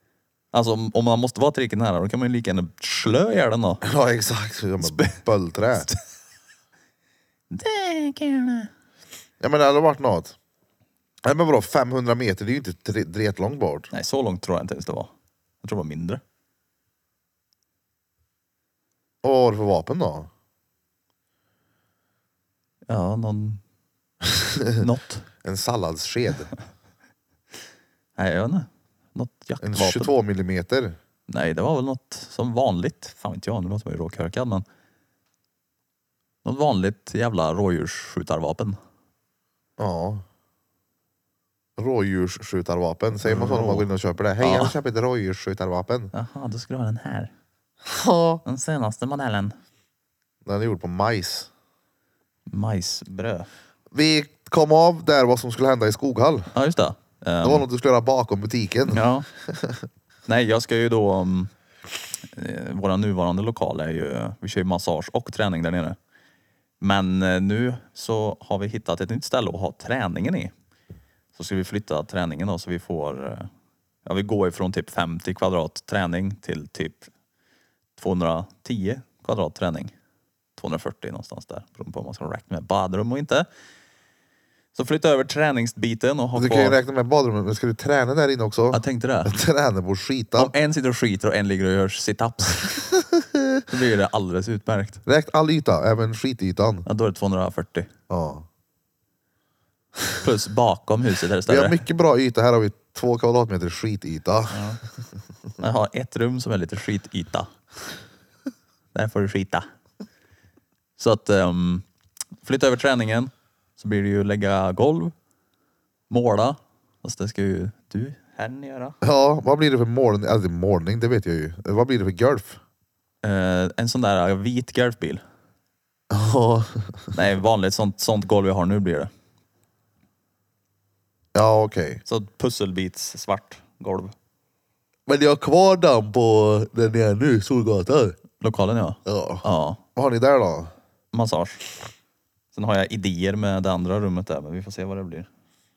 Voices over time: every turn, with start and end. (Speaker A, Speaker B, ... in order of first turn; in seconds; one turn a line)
Speaker A: 0.5-3.8
Speaker B: 3.8-5.9
Speaker A: 4.8-5.2
Speaker A: 7.5-8.7
Speaker B: 9.4-10.3
Speaker B: 11.2-13.9
Speaker A: 13.9-15.1
Speaker A: 15.6-16.2
Speaker B: 19.2-20.3
Speaker A: 22.9-23.6
Speaker B: 24.3-24.8
Speaker A: 24.8-25.2
Speaker B: 25.4-26.5
Speaker A: 28.2-30.1
Speaker B: 29.6-31.0
Speaker A: 31.3-34.6
Speaker A: 36.4-38.8
Speaker B: 39.8-40.2
Speaker B: 41.8-46.1
Speaker A: 43.2-43.9
Speaker A: 44.4-44.7
Speaker A: 46.1-47.3
Speaker B: 47.8-48.4
Speaker A: 48.4-49.5
Speaker B: 50.4-51.5
Speaker A: 52.5-53.5
Speaker B: 53.9-56.5
Speaker A: 56.5-57.6
Speaker B: 57.4-59.8
Speaker A: 58.9-59.3
Speaker A: 60.3-61.5
Speaker A: 62.3-66.0
Speaker A: 66.8-70.5
Speaker A: 71.3-73.5
Speaker A: 74.0-77.1
Speaker A: 78.0-79.9
Speaker A: 80.6-83.5
Speaker A: 84.7-86.8
Speaker B: 86.3-90.5
Speaker A: 88.7-89.3
Speaker A: 90.3-92.8
Speaker B: 93.2-93.5
Speaker A: 93.7-95.0
Speaker B: 95.0-96.8
Speaker A: 96.8-97.9
Speaker B: 98.1-98.5
Speaker A: 100.2-101.8
Speaker B: 101.5-104.7
Speaker A: 104.5-104.8
Speaker A: 105.6-107.5
Speaker A: 108.9-109.7
Speaker A: 111.0-111.8
Speaker A: 112.4-115.1
Speaker A: 116.1-119.0
Speaker B: 119.0-122.6
Speaker A: 123.2-125.2
Speaker B: 126.1-127.1
Speaker A: 127.1-129.1
Speaker B: 131.3-132.0
Speaker A: 132.1-134.1
Speaker B: 135.1-138.2
Speaker A: 138.4-139.8
Speaker B: 139.1-139.4
Speaker B: 139.9-140.7
Speaker A: 141.1-141.7
Speaker A: 142.5-145.3